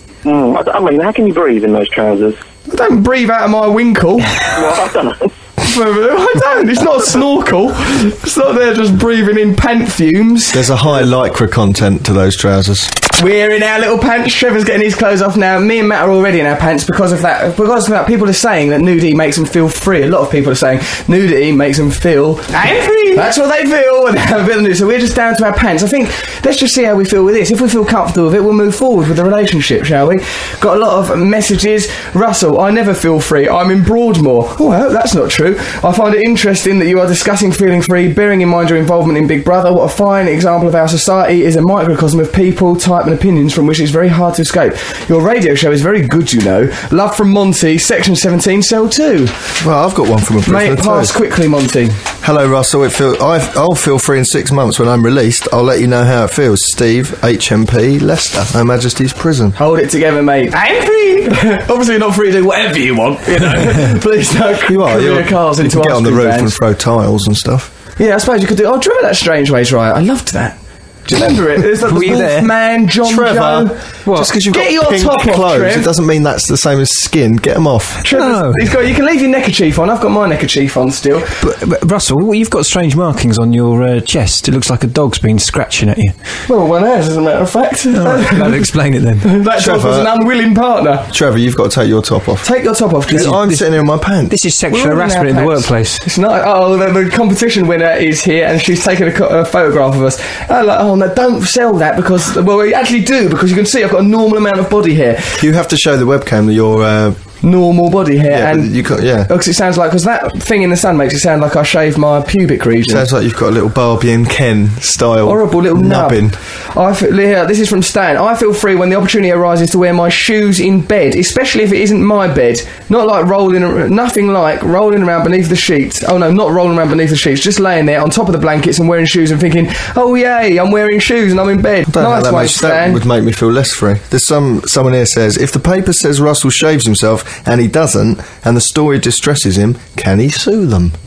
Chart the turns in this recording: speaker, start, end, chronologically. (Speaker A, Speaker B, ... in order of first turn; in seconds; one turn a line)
Speaker A: 0.2-2.4
Speaker B: 2.7-4.5
Speaker A: 4.5-5.3
Speaker B: 5.6-10.7
Speaker C: 10.5-12.9
Speaker B: 13.2-49.4
Speaker C: 49.6-51.1
Speaker B: 50.5-52.0
Speaker C: 52.2-59.6
Speaker B: 59.6-66.6
Speaker C: 64.7-67.7
Speaker B: 68.0-73.8
Speaker D: 71.8-72.5
Speaker C: 73.0-78.0
Speaker D: 74.1-74.3
Speaker B: 74.4-75.9
Speaker B: 78.0-81.4
Speaker D: 78.1-78.8
Speaker D: 81.4-86.1
Speaker B: 86.5-88.7
Speaker D: 87.9-89.3
Speaker B: 89.2-91.1
Speaker C: 89.5-90.1
Speaker C: 91.1-92.5
Speaker B: 92.4-93.4
Speaker C: 93.1-94.3
Speaker D: 93.1-96.0
Speaker B: 94.7-105.4
Speaker C: 105.4-107.2
Speaker B: 107.4-113.1
Speaker C: 108.3-109.3
Speaker C: 112.9-116.4
Speaker B: 115.2-133.0
Speaker C: 131.9-140.9